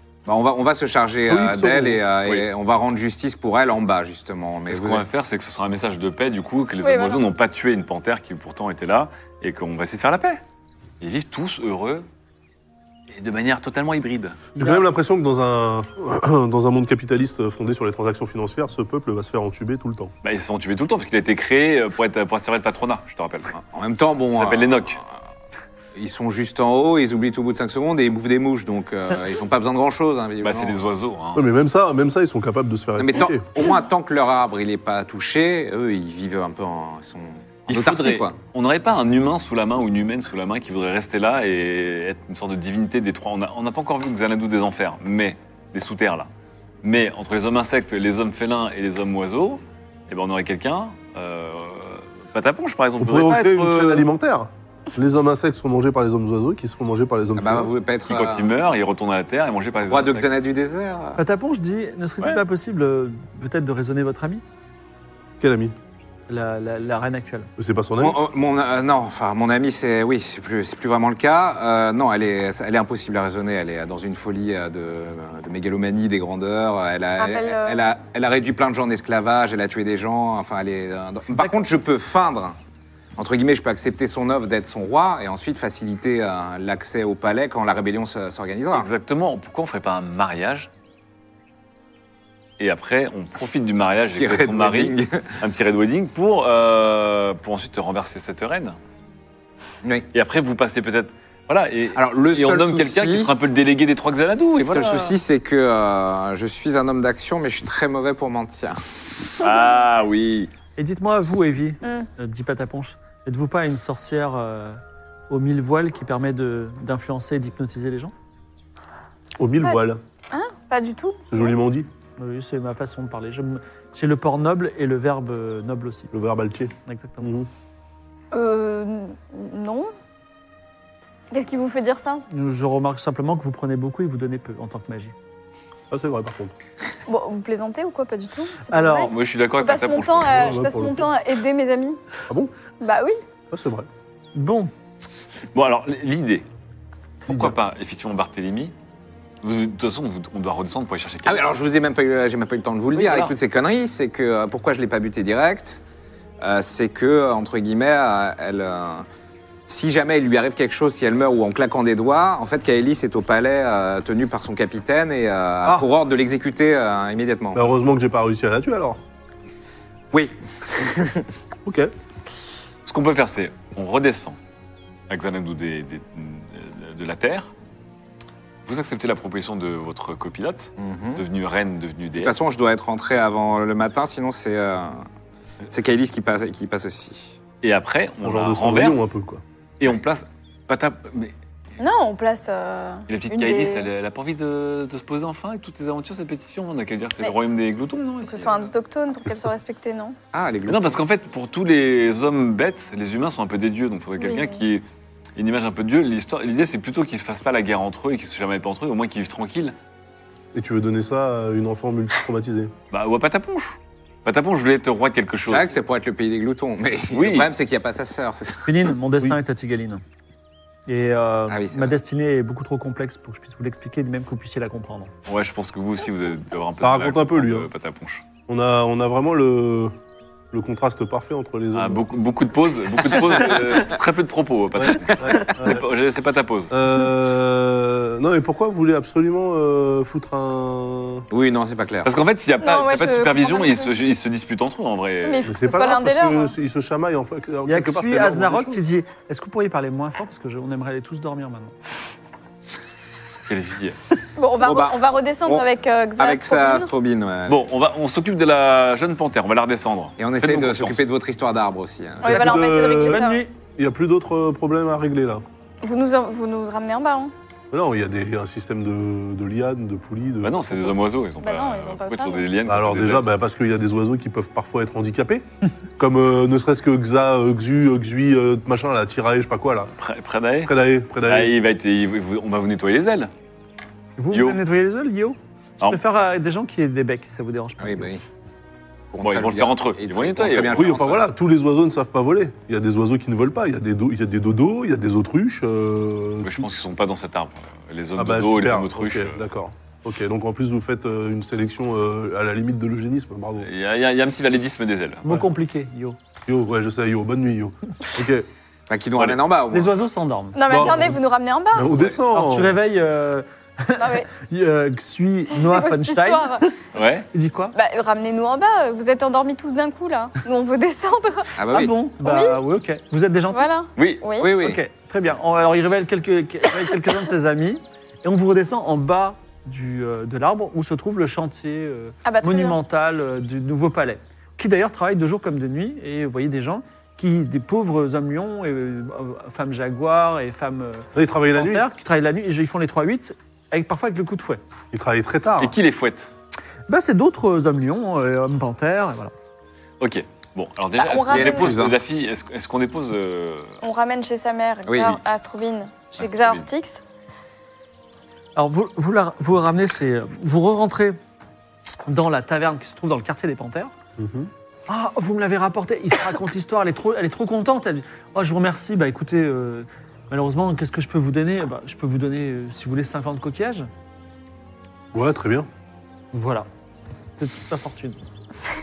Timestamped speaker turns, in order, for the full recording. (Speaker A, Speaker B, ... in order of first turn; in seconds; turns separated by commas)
Speaker A: 0.3-5.0, Speaker B: 1.3-2.0, Speaker C: 4.7-10.4, Speaker D: 6.8-7.2, Speaker C: 11.0-12.1, Speaker C: 13.1-14.4, Speaker B: 14.6-20.1, Speaker E: 14.6-14.8, Speaker C: 20.2-23.5, Speaker A: 23.6-25.0, Speaker C: 24.3-25.0, Speaker A: 25.9-30.8, Speaker C: 30.4-31.5, Speaker B: 31.4-33.5, Speaker A: 33.0-38.4, Speaker C: 37.7-46.3, Speaker C: 46.8-54.0, Speaker B: 53.0-57.7, Speaker A: 57.4-58.5, Speaker C: 58.1-60.3, Speaker A: 59.9-61.2, Speaker E: 61.2-64.4, Speaker B: 65.4-65.8, Speaker E: 66.3-67.5, Speaker B: 67.6-68.2, Speaker A: 68.0-82.6, Speaker D: 77.2-77.8, Speaker A: 83.2-88.9, Speaker C: 88.7-90.7, Speaker C: 92.6-98.8, Speaker A: 94.1-95.3, Speaker C: 100.1-105.2, Speaker A: 102.0-103.3, Speaker A: 104.7-108.8, Speaker C: 109.4-110.5, Speaker E: 110.8-118.1, Speaker D: 111.8-112.1, Speaker B: 119.4-120.0, Speaker D: 120.3-121.3, Speaker B: 121.3-121.9, Speaker E: 122.2-126.1, Speaker B: 126.1-127.5, Speaker E: 126.9-127.3, Speaker D: 128.3-129.9, Speaker D: 131.3-132.2, Speaker E: 132.3-135.1, Speaker B: 135.9-136.5, Speaker D: 137.1-142.0, Speaker E: 138.7-139.1, Speaker C: 139.1-140.6, Speaker B: 140.3-141.1, Speaker D: 142.8-143.2, Speaker B: 143.5-143.9, Speaker E: 144.3-144.7, Speaker C: 145.5-146.5, Speaker B: 147.3-147.6, Speaker C: 147.3-148.7, Speaker C: 149.4-151.5, Speaker A: 151.3-155.8, Speaker C: 152.9-153.3, Speaker A: 156.4-159.1, Speaker A: 159.7-167.7, Speaker B: 167.5-169.0, Speaker A: 170.1-171.3, Speaker B: 171.7-171.9, Speaker C: 172.9-174.4, Speaker C: 175.1-177.5, Speaker C: 178.7-182.5, Speaker A: 180.8-181.2, Speaker A: 182.2-185.0, Speaker A: 185.7-187.4, Speaker C: 187.6-189.1, Speaker B: 188.2-189.4, Speaker C: 189.8-191.3, Speaker D: 191.8-193.9, Speaker C: 193.1-198.7, Speaker D: 198.2-200.2, Speaker A: 200.3-201.0, Speaker C: 200.7-204.8, Speaker D: 204.2-204.6, Speaker C: 205.4-209.8, Speaker B: 210.5-212.7, Speaker C: 212.9-215.7, Speaker A: 215.4-218.9, Speaker C: 217.1-217.5, Speaker E: 218.7-220.0, Speaker E: 220.9-225.1, Speaker A: 221.5-222.0, Speaker C: 225.3-228.2, Speaker B: 226.8-227.7, Speaker B: 228.5-229.9, Speaker B: 230.5-232.1, Speaker C: 231.7-236.7, Speaker B: 234.8-235.8, Speaker B: 236.7-241.3, Speaker A: 241.3-242.1, Speaker C: 242.0-245.5, Speaker D: 242.6-243.9, Speaker D: 245.2-246.5, Speaker B: 245.4-248.8, Speaker E: 247.7-251.8, Speaker C: 253.5-254.0, Speaker D: 254.4-256.9, Speaker A: 254.6-255.7, Speaker A: 256.2-257.6, Speaker C: 257.5-261.0, Speaker A: 260.2-262.5, Speaker D: 262.2-263.4, Speaker B: 262.2-263.2, Speaker E: 262.2-263.5, Speaker B: 263.8-265.4, Speaker D: 265.8-267.3, Speaker B: 267.7-271.0, Speaker C: 270.4-273.3, Speaker D: 271.4-272.5, Speaker B: 272.7-275.4, Speaker B: 276.0-279.9, Speaker C: 280.0-283.3, Speaker B: 280.6-281.6, Speaker E: 284.2-288.1, Speaker C: 284.3-284.6, Speaker A: 287.8-288.2, Speaker A: 289.1-291.2, Speaker C: 289.2-291.2, Speaker B: 290.7-296.7, Speaker C: 296.4-299.4, Speaker B: 298.2-303.7, Speaker C: 303.6-305.4, Speaker E: 305.2-306.2, Speaker B: 306.5-308.5, Speaker A: 308.9-309.9, Speaker E: 309.7-311.0, Speaker D: 310.5-311.9, Speaker B: 310.7-311.2, Speaker B: 311.7-312.8, Speaker E: 312.3-316.7, Speaker D: 314.0-314.3, Speaker D: 315.6-316.7, Speaker C: 316.9-317.3, Speaker E: 317.3-317.8, Speaker D: 317.7-321.6, Speaker A: 321.6-321.9, Speaker E: 321.7-323.7, Speaker D: 322.2-322.6, Speaker D: 323.5-324.6, Speaker C: 324.0-324.2, Speaker A: 324.4-324.8, Speaker E: 324.6-344.6, Speaker D: 332.2-332.8, Speaker B: 341.1-341.9, Speaker B: 344.9-345.8, Speaker C: 345.6-346.3, Speaker E: 346.9-349.3, Speaker C: 350.0-353.8, Speaker D: 351.0-351.8, Speaker A: 351.3-352.0, Speaker D: 353.8-357.0, Speaker A: 354.9-355.2, Speaker C: 356.2-356.7, Speaker E: 358.6-361.2, Speaker E: 362.1-363.9, Speaker B: 364.2-364.5, Speaker E: 364.9-373.9, Speaker B: 375.1-375.7, Speaker E: 376.3-376.7, Speaker E: 377.4-378.2